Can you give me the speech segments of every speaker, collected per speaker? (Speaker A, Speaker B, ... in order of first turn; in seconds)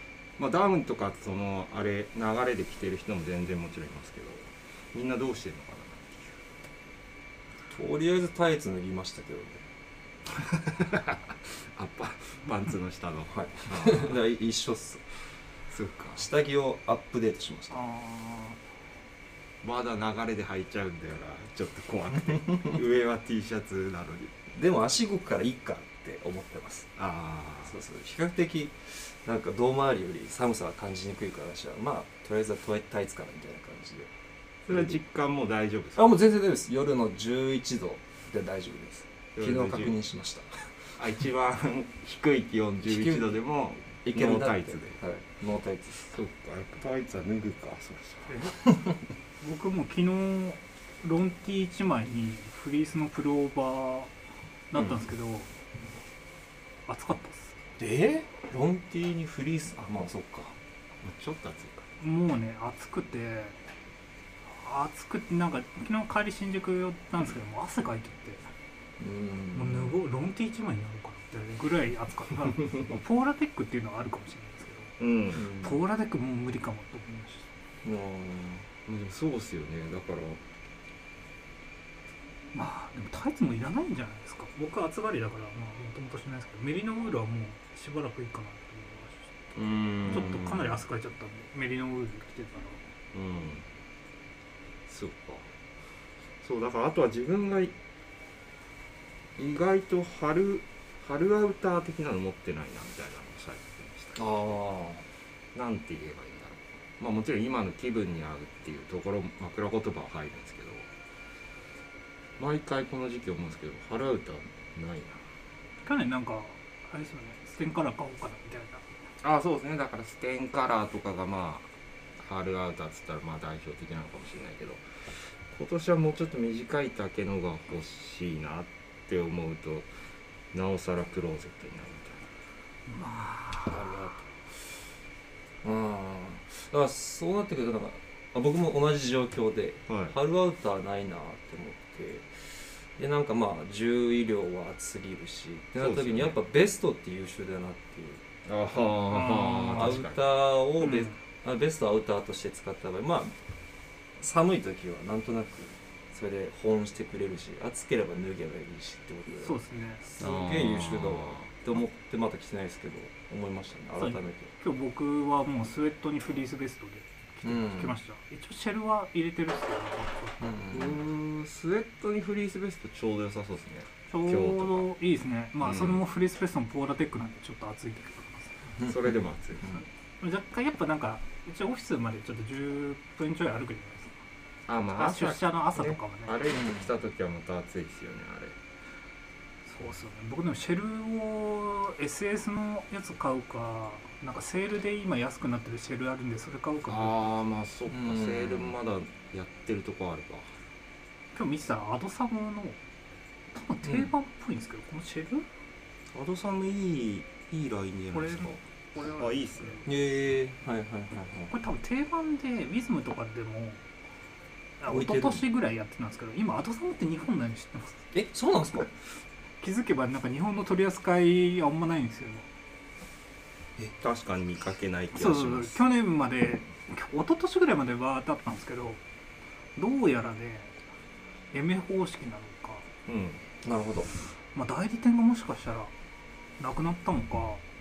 Speaker A: 0.4-6.4, 10.4-14.2, 15.7-16.2, 19.6-24.3, 27.0-27.8, 34.7-36.1, 39.4-39.9, 41.0-45.0, 46.0-48.4, 61.0-61.9, 75.0-75.5, 78.8-80.4, 89.5-90.8, 93.1-93.6, 94.9-95.5, 96.4-97.8, 99.4-104.6, 105.5-110.9, 112.4-115.2, 119.2-129.9, 130.5-132.3, 139.9-140.1, 145.8-146.4, 148.4-150.2, 160.2-161.5, 170.7-174.9, 175.6-176.0, 178.8-179.8, 184.7-188.6, 196.8-200.5, 206.1-209.8, 224.0-225.8, 233.1-233.4
Speaker B: 7.7-9.6, 13.3-15.0, 16.2-17.8, 24.5-26.9, 27.6-34.1, 34.7-35.0, 35.9-41.0, 42.8-43.4, 44.0-46.0, 57.8-60.6, 69.0-70.0, 75.3-75.8, 77.8-78.7, 104.2-105.0, 133.5-134.3, 135.6-148.2, 149.8-153.3, 154.2-164.5, 167.4-167.9, 170.4-171.0, 186.5-186.9, 197.9-198.8, 209.8-211.5, 214.9-215.5, 218.1-218.9, 233.6-234.1
Speaker C: 17.7-18.6, 48.3-48.9, 49.4-54.1, 54.7-55.5, 56.9-57.6, 62.0-63.6, 64.5-68.5, 69.5-77.5, 82.5-89.4, 90.0-92.8, 115.8-118.9, 132.9-133.7, 149.1-150.1, 150.7-151.2, 159.4-160.1, 163.9-170.4, 174.1-178.6, 179.7-184.2, 184.9-186.4, 189.7-197.2, 201.3-202.8, 203.5-205.5, 208.1-209.9, 211.5-213.8, 214.8-218.0, 219.6-222.5, 225.1-229.0, 229.8-230.7, 231.5-232.9, 234.5-235.9, 236.6-237.6